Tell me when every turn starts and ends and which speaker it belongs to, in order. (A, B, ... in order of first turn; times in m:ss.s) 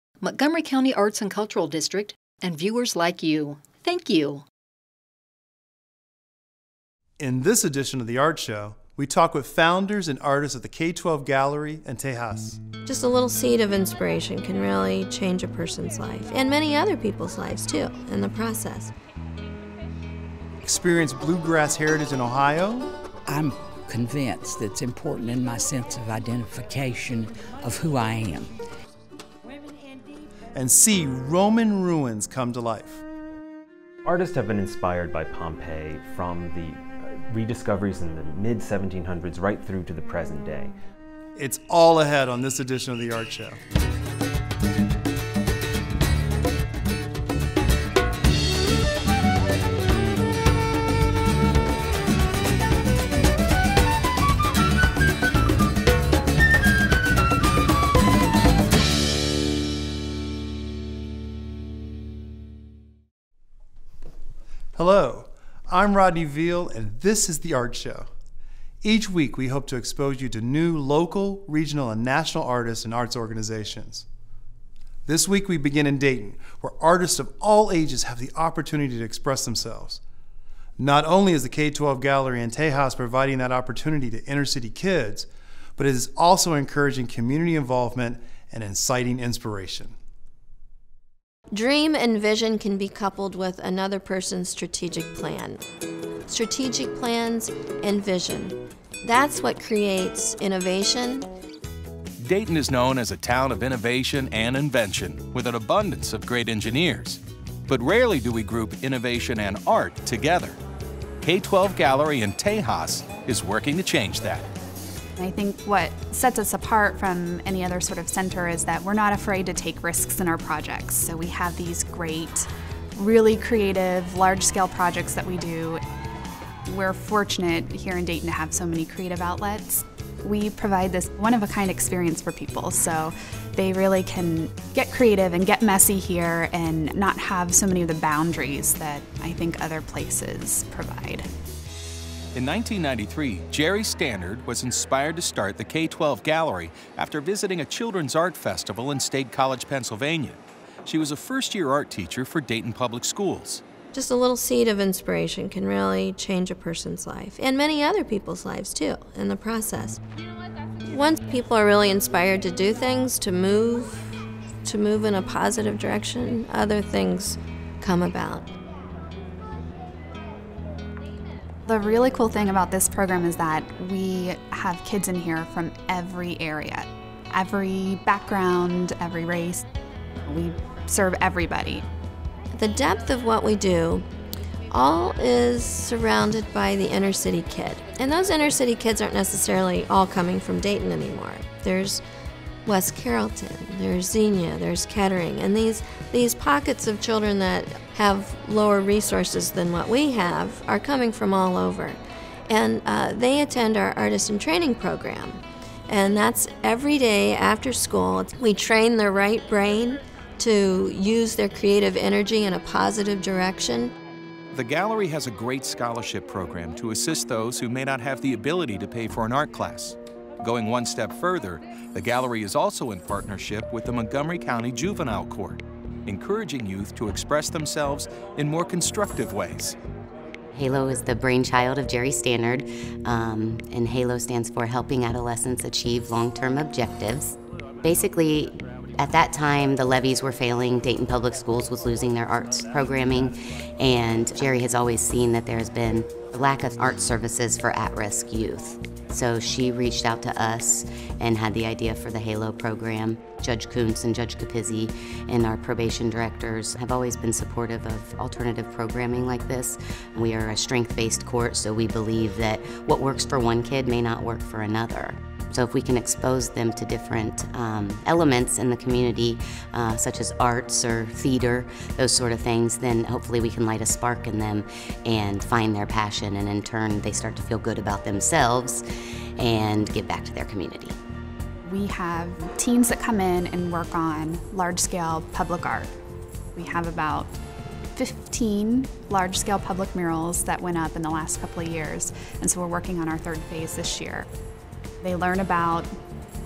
0:00.2-0:04.4 A
0:07.2-0:12.6 B
0:12.8-0:18.9 C
0:20.6-0:22.9 B
0:23.3-0:28.6 D
0:30.5-0:33.0 B
0:34.0-0:40.8 E
0:41.4-0:43.6 B
1:04.8-1:08.1 B
1:08.8-1:14.0 B
1:15.0-1:20.0 B
1:20.8-1:29.9 B
1:31.5-1:35.6 C
1:36.3-1:41.3 C
1:42.2-1:50.6 F
1:51.2-1:54.5 F
1:55.2-2:05.8 G
2:06.7-2:21.3 G
2:22.3-2:33.6 F
2:33.9-2:40.0 C
2:40.9-2:48.5 C
2:51.6-2:59.6 G
3:00.2-3:01.8 G
3:02.5-3:04.0 C
3:04.7-3:12.0 C
3:12.6-3:33.9 C
3:34.5-3:49.8 F
3:50.5-4:38.8 H
4:39.4-4:41.0 H
4:41.6-4:45.9 G
4:46.6-4:47.3 G
4:48.0-4:54.3 G
4:55.0-4:55.9 G